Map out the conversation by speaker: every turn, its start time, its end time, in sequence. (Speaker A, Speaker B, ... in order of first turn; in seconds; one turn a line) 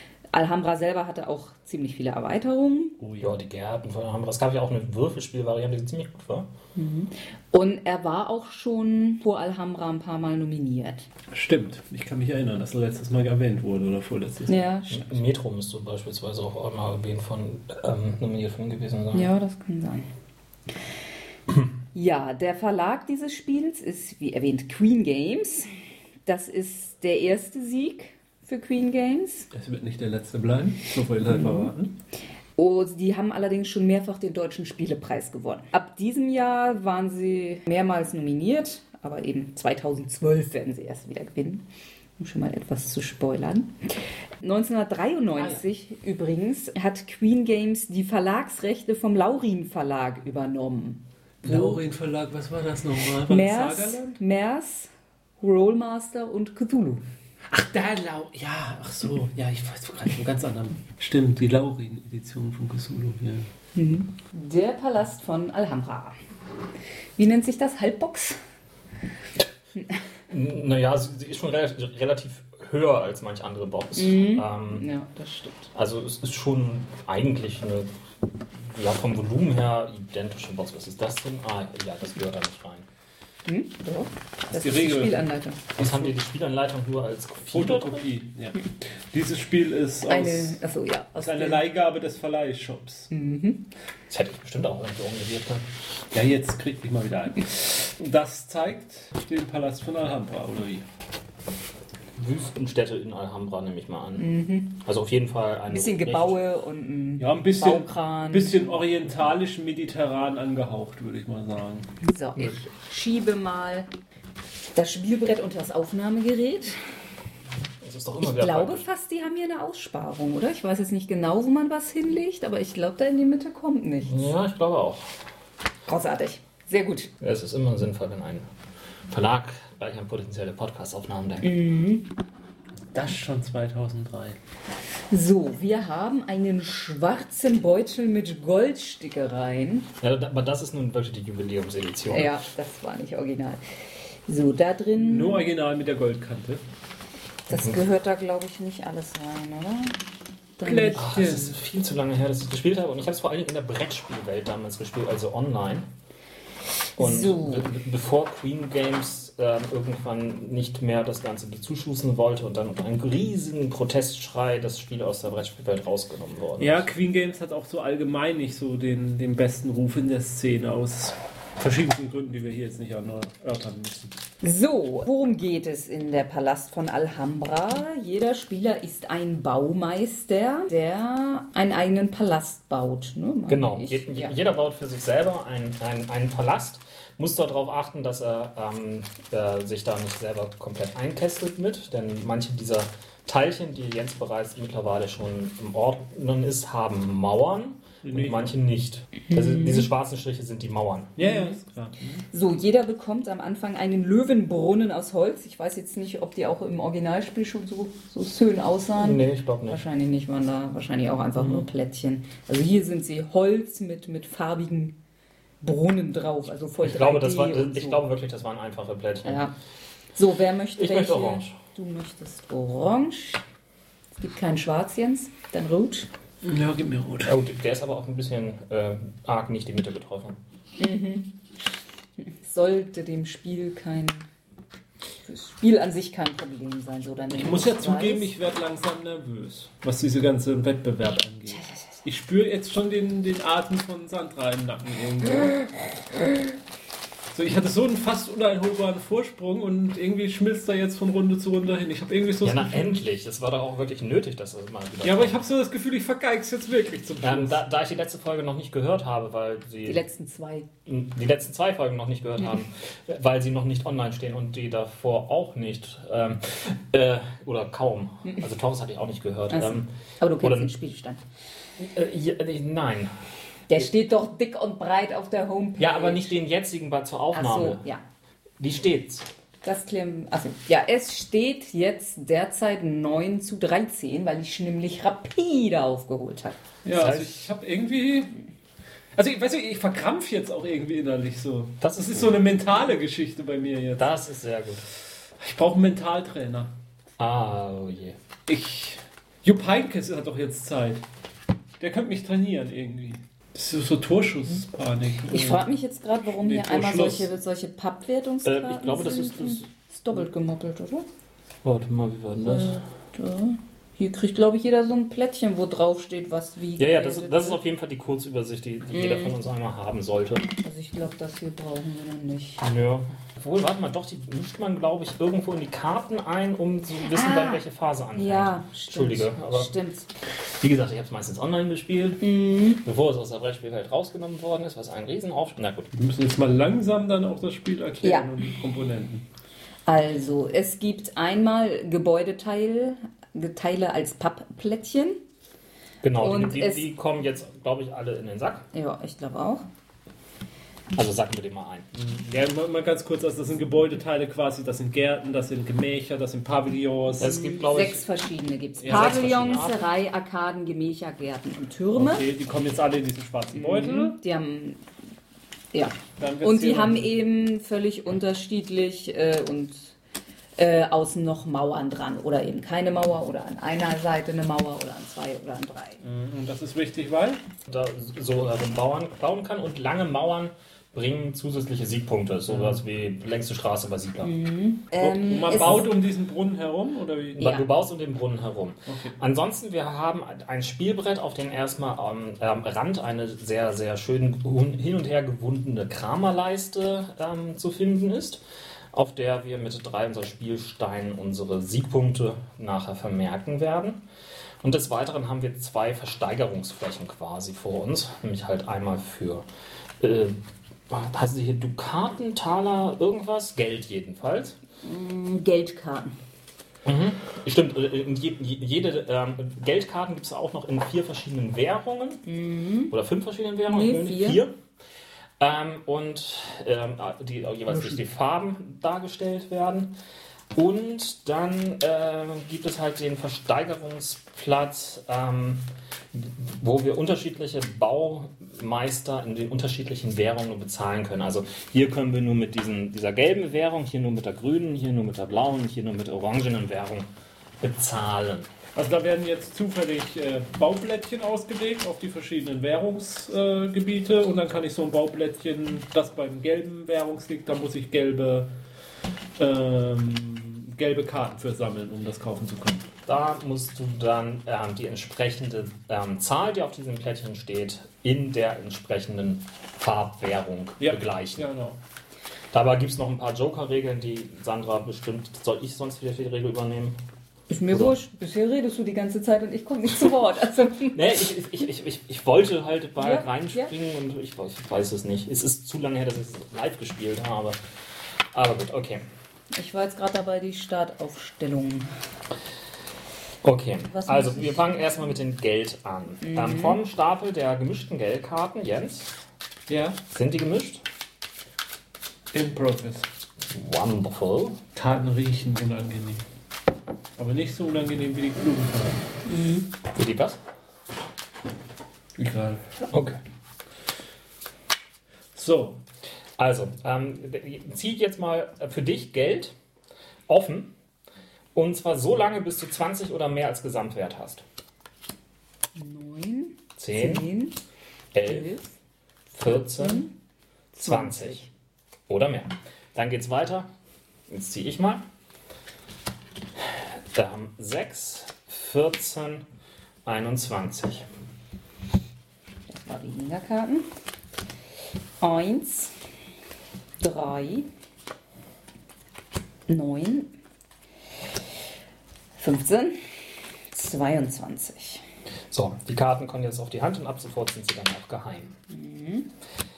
Speaker A: 0.3-3.0
Speaker B: 3.0-3.3
Speaker C: 3.2-6.5
Speaker A: 6.8-11.1
Speaker B: 11.3-14.7
Speaker A: 14.5-15.1
Speaker C: 14.9-19.3
Speaker A: 19.1-20.1
Speaker A: 21.9-25.7
Speaker A: 26.2-29.5
Speaker B: 29.5-31.9
Speaker A: 31.3-31.7
Speaker A: 32.5-41.7
Speaker A: 42.2-43.8
Speaker A: 44.4-51.8
Speaker B: 51.4-54.2
Speaker A: 53.3-54.9
Speaker A: 55.4-57.0
Speaker B: 57.5-63.5
Speaker A: 63.7-66.2
Speaker A: 67.2-68.4
Speaker C: 70.3-74.8
Speaker A: 74.0-75.7
Speaker C: 75.7-77.9
Speaker C: 78.5-82.9
Speaker A: 83.5-85.7
Speaker B: 84.5-85.2
Speaker B: 85.8-86.1
Speaker C: 85.8-88.0
Speaker B: 87.5-90.6
Speaker A: 90.1-91.6
Speaker B: 91.2-93.1
Speaker A: 93.1-93.7
Speaker C: 94.1-95.6
Speaker B: 96.1-100.8
Speaker C: 102.2-104.3
Speaker A: 104.2-104.8
Speaker C: 104.8-106.4
Speaker A: 105.7-108.8
Speaker B: 107.2-111.9
Speaker A: 112.0-113.9
Speaker A: 114.7-116.8
Speaker C: 117.8-118.8
Speaker A: 118.2-124.3
Speaker C: 124.0-125.1
Speaker A: 125.9-127.1
Speaker C: 127.2-128.4
Speaker C: 129.1-131.5
Speaker A: 131.4-132.1
Speaker B: 132.9-134.4
Speaker A: 135.1-139.9
Speaker C: 140.0-142.3
Speaker A: 142.1-143.6
Speaker A: 144.3-145.4
Speaker B: 144.9-146.6
Speaker A: 147.5-150.0
Speaker C: 147.5-147.8
Speaker A: 150.6-151.0
Speaker B: 150.6-151.6
Speaker C: 150.9-155.9
Speaker C: 157.0-166.8
Speaker A: 157.0-157.7
Speaker B: 166.6-174.1
Speaker A: 174.4-184.3
Speaker C: 183.5-201.1
Speaker B: 198.0-198.5
Speaker A: 199.3-199.9
Speaker B: 201.2-202.2
Speaker A: 201.2-201.6
Speaker A: 202.3-215.0
Speaker C: 209.0-209.8
Speaker A: 215.6-218.1
Speaker C: 216.8-219.4
Speaker A: 219.2-219.5
Speaker A: 220.1-223.4
Speaker C: 220.8-221.6
Speaker A: 224.2-226.1
Speaker B: 226.4-227.3
Speaker C: 227.2-230.4
Speaker A: 230.8-231.3
Speaker A: 232.4-234.3
Speaker A: 235.2-238.3
Speaker B: 237.3-245.8
Speaker A: 241.5-241.8
Speaker B: 247.3-253.0
Speaker C: 252.4-255.4
Speaker B: 255.0-257.6
Speaker C: 257.2-260.0
Speaker A: 259.8-260.7
Speaker C: 260.9-270.7
Speaker A: 269.5-271.2
Speaker C: 271.8-273.1
Speaker A: 273.7-276.4
Speaker C: 275.8-277.8
Speaker A: 277.3-278.0
Speaker C: 278.6-279.3
Speaker A: 279.6-286.6
Speaker B: 286.8-288.4
Speaker C: 286.9-287.5
Speaker B: 289.1-294.1
Speaker C: 291.8-292.4
Speaker C: 294.0-294.8
Speaker B: 295.4-296.7
Speaker C: 297.2-298.2
Speaker B: 298.5-301.0
Speaker B: 301.8-305.6
Speaker A: 305.3-311.1
Speaker B: 306.4-307.3
Speaker C: 308.4-309.6
Speaker C: 311.6-312.8
Speaker A: 312.4-317.6
Speaker C: 316.8-320.5
Speaker A: 318.9-319.3
Speaker A: 320.6-322.6
Speaker C: 322.6-329.7
Speaker A: 327.1-327.6
Speaker A: 328.1-330.1
Speaker C: 330.6-335.9
Speaker A: 332.2-332.8
Speaker B: 335.9-339.2
Speaker A: 338.0-338.3
Speaker A: 339.9-345.2
Speaker C: 346.0-348.6
Speaker A: 346.2-346.9
Speaker A: 348.7-349.6
Speaker C: 350.9-351.9
Speaker B: 351.9-357.4
Speaker C: 357.2-358.0
Speaker A: 357.2-362.2
Speaker B: 358.8-359.2
Speaker C: 358.9-359.8
Speaker B: 361.9-364.2
Speaker A: 363.5-364.8
Speaker A: 365.7-369.9
Speaker B: 366.2-367.2
Speaker A: 370.6-376.0
Speaker B: 376.0-377.4
Speaker C: 377.7-384.3
Speaker B: 382.5-382.8
Speaker A: 384.2-385.9
Speaker B: 385.0-387.5
Speaker C: 387.4-398.4
Speaker A: 387.4-387.6
Speaker B: 388.9-389.1
Speaker C: 398.9-404.0
Speaker C: 404.6-409.4
Speaker C: 410.0-410.4
Speaker C: 410.9-414.6
Speaker A: 414.8-416.1
Speaker C: 416.8-422.2
Speaker A: 422.2-422.9
Speaker C: 422.9-424.5
Speaker A: 423.7-424.4
Speaker C: 425.4-429.9
Speaker A: 427.7-428.0
Speaker C: 430.5-448.5
Speaker B: 448.7-458.5
Speaker B: 459.4-462.9
Speaker C: 463.1-471.4
Speaker B: 470.8-471.8
Speaker C: 472.5-477.0
Speaker A: 477.5-481.1
Speaker C: 480.9-487.6
Speaker A: 483.0-483.7
Speaker C: 488.3-489.1
Speaker A: 489.5-491.9
Speaker C: 493.4-499.1
Speaker A: 493.9-494.7
Speaker A: 496.2-496.8
Speaker B: 499.7-500.0
Speaker C: 500.1-500.8
Speaker B: 502.3-503.1
Speaker C: 503.5-504.6
Speaker B: 504.8-506.2
Speaker B: 507.2-509.0
Speaker A: 509.2-509.7
Speaker C: 509.9-510.4
Speaker B: 512.2-512.6
Speaker C: 512.9-513.2
Speaker B: 515.3-515.8
Speaker C: 516.4-519.5
Speaker C: 520.3-520.7
Speaker C: 521.5-524.4
Speaker A: 525.8-527.6
Speaker C: 526.8-527.3
Speaker C: 528.1-528.5
Speaker A: 528.2-528.7
Speaker C: 529.3-530.1
Speaker A: 529.4-530.1
Speaker A: 530.7-531.5
Speaker C: 530.8-531.4
Speaker C: 532.1-533.7
Speaker C: 534.3-535.0
Speaker C: 536.6-539.5
Speaker C: 540.0-541.0
Speaker A: 542.7-543.9
Speaker A: 545.2-545.9
Speaker A: 547.0-547.7
Speaker A: 549.7-550.3
Speaker A: 552.4-553.0
Speaker A: 553.7-555.0
Speaker C: 555.5-558.5
Speaker A: 558.7-559.3